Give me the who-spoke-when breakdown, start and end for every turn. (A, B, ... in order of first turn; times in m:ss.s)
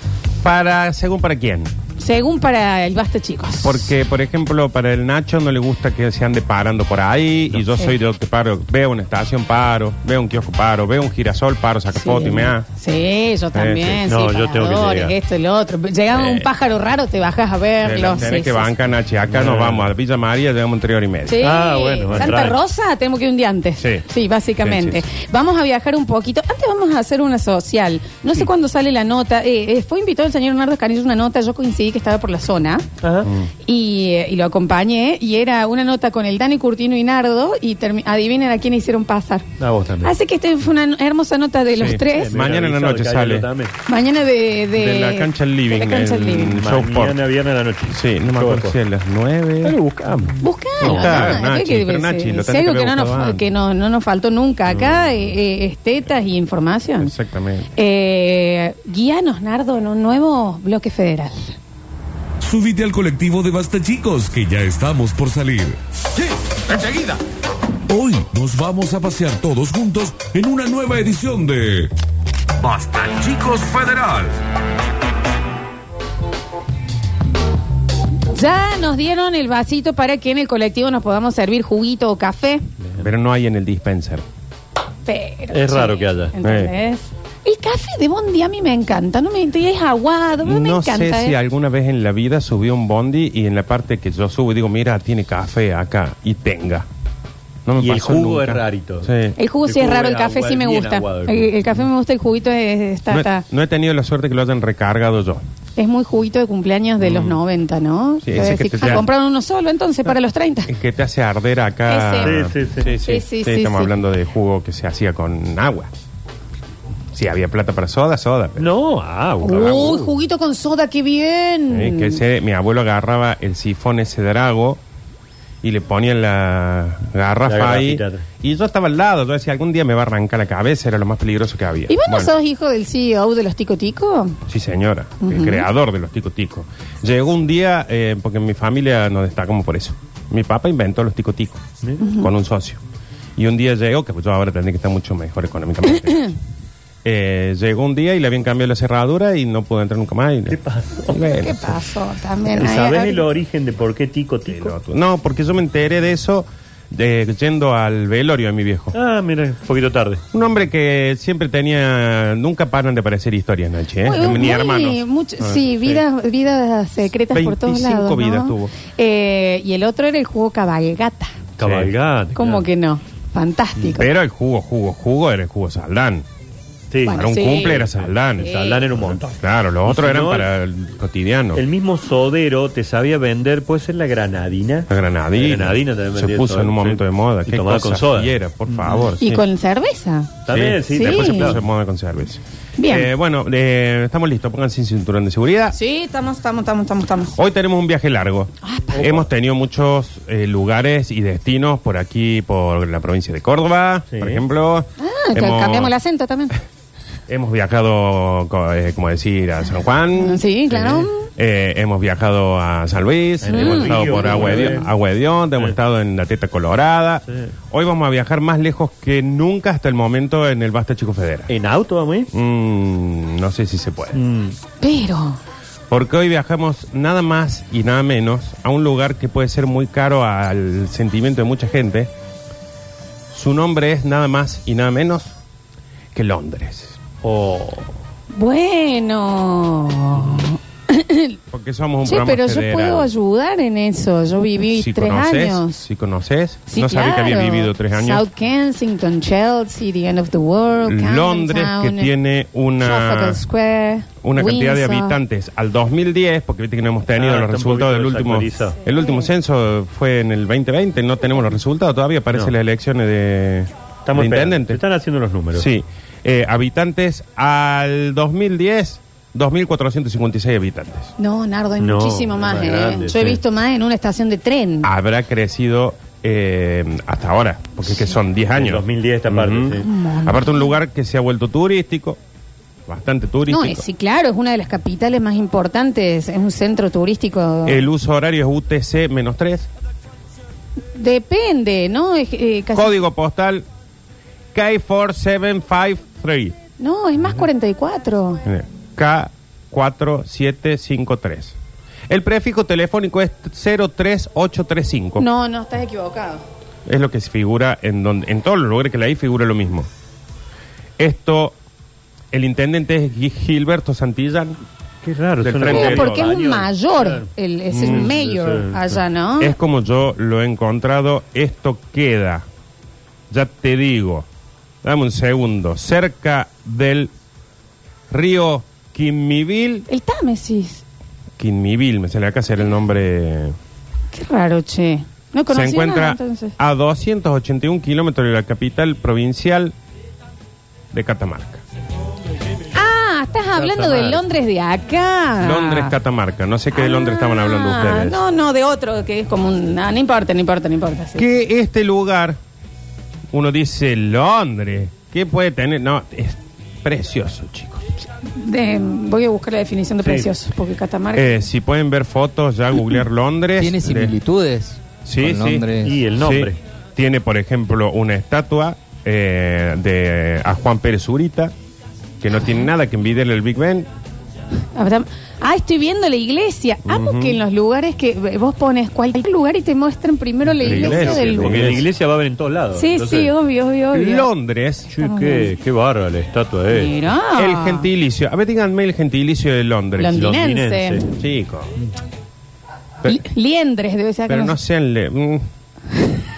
0:00.4-0:01.7 A
0:02.0-0:03.9 B
0:03.6-0:12.6 A
0:11.9-0:18.7 B
0:13.5-0:14.0 A
0:14.1-0:15.1 C
0:16.1-0:16.5 A
0:17.8-0:21.4 A
0:19.3-0:19.9 C
0:21.3-0:32.8 B
0:21.4-0:22.6 C
0:23.8-0:24.0 A
0:24.6-0:25.0 A
0:33.0-0:33.3 C
0:33.6-0:39.4 B
0:39.6-0:40.1 C
0:40.0-0:42.4 B
0:41.8-0:43.5 A
0:42.1-0:43.7 C
0:43.9-0:46.6 B
0:44.7-0:47.2 A
0:46.6-0:48.8 C
0:47.9-0:49.8 A
0:49.6-0:51.4 C
0:50.4-0:57.1 B
0:50.8-0:53.4 A
0:54.7-0:55.0 C
0:57.0-0:57.7 A
0:57.7-1:01.6 B
1:02.4-1:07.2 D
1:07.9-1:11.9 D
1:12.6-1:14.4 D
1:18.3-1:22.7 B
1:23.0-1:24.2 A
1:25.1-1:31.4 B
1:25.5-1:26.3 C
1:26.4-1:26.7 A
1:30.4-1:36.8 A
1:37.6-1:39.4 A
1:37.8-1:39.1 C
1:39.4-1:43.4 B
1:39.6-1:41.5 C
1:43.1-1:45.4 A
1:45.8-1:50.7 B
1:47.0-1:47.4 A
1:48.2-1:49.0 A
1:50.7-1:55.9 A
1:51.9-1:52.4 B
1:52.2-1:52.9 C
1:53.0-1:53.9 B
1:57.1-1:58.7 A
1:58.6-2:00.1 C
1:59.4-2:02.2 B
1:59.4-1:59.9 A
2:01.7-2:04.8 A
2:05.6-2:12.3 A
2:07.4-2:08.2 C
2:11.9-2:14.4 B
2:14.5-2:21.6 A
2:15.2-2:15.6 B
2:22.0-2:22.3 B
2:22.2-2:22.8 A
2:23.4-2:26.3 A
2:27.0-2:31.8 A
2:30.5-2:31.2 C
2:31.1-2:33.2 B
2:32.5-2:34.7 C
2:34.5-2:39.0 A
2:38.9-2:40.2 C
2:40.3-2:46.0 A
2:44.0-2:51.4 B
2:47.3-2:48.7 A
2:51.6-2:52.6 C
2:51.6-2:51.9 A
2:52.3-2:54.1 B
2:53.9-2:56.2 A
2:56.9-3:00.5 C
2:57.0-2:57.8 B
2:57.1-2:58.5 A
2:58.4-2:58.8 B
2:59.0-3:01.6 A
3:01.5-3:09.1 C
3:04.9-3:09.4 A
3:09.2-3:10.3 B
3:10.4-3:11.6 C
3:10.5-3:15.8 A
3:10.9-3:11.6 B
3:12.8-3:13.1 B
3:15.7-3:17.4 B
3:17.4-3:25.9 A
3:18.6-3:19.1 B
3:24.1-3:24.4 C
3:25.0-3:26.6 B
3:27.3-3:41.5 A
3:30.2-3:31.3 B
3:30.7-3:31.0 C
3:33.4-3:34.9 C
3:33.5-3:34.7 B
3:41.5-3:42.3 C
3:42.3-3:44.2 A
3:44.1-3:44.6 C
3:44.8-3:45.4 B
3:45.9-3:52.1 A
3:53.3-3:55.3 A
3:56.1-3:57.0 A
3:57.2-3:57.9 C
3:58.3-4:01.4 B
4:01.5-4:03.1 A
4:02.0-4:05.8 B
4:04.7-4:08.2 A
4:06.7-4:12.1 B
4:10.8-4:13.4 A
4:12.8-4:15.2 B
4:14.2-4:24.8 A
4:17.1-4:18.8 C
4:19.0-4:19.2 B
4:24.0-4:25.7 C
4:25.5-4:31.1 A
4:31.2-4:34.9 B
4:31.8-4:33.4 C
4:34.8-4:42.2 A
4:38.5-4:39.9 C
4:39.8-4:40.7 B
4:42.9-4:43.8 A
4:43.5-4:47.9 B
4:47.6-4:49.7 A
4:50.9-4:53.0 B
4:52.7-4:53.6 A
4:54.5-4:56.6 A
4:56.8-4:58.4 B
4:58.4-5:01.5 A
5:02.1-5:05.2 A
5:05.2-5:06.4 B
5:06.8-5:09.9 A
5:11.0-5:11.6 A
5:12.3-5:14.6 A
5:15.0-5:19.0 C
5:15.4-5:16.3 A
5:15.6-5:19.5 B
5:17.8-5:18.1 A
5:19.4-5:22.4 A
5:23.3-5:24.2 A
5:24.8-5:27.1 A
5:28.1-5:29.8 A
5:29.9-5:30.8 B
5:31.4-5:33.5 A
5:34.1-5:36.5 B
5:35.5-5:39.7 A
5:40.9-5:41.6 A
5:42.7-5:45.9 B
5:43.5-5:44.2 C
5:45.4-5:48.2 A
5:46.7-5:51.3 B
5:51.2-5:52.4 A
5:53.3-5:57.9 A
5:58.2-6:01.4 B
6:01.1-6:04.2 A
6:03.6-6:06.0 E
6:05.0-6:11.5 A
6:05.8-6:06.6 C
6:12.2-6:13.9 A
6:14.7-6:21.7 B
6:16.8-6:17.4 A
6:20.5-6:23.3 C
6:20.6-6:21.8 A
6:22.7-6:24.3 B
6:23.9-6:24.9 A
6:24.9-6:26.9 C
6:25.0-6:25.5 B
6:26.7-6:27.9 B
6:27.3-6:30.2 A
6:30.0-6:31.0 B
6:30.1-6:31.1 C
6:31.1-6:31.7 A
6:33.0-6:34.6 B
6:34.3-6:35.5 A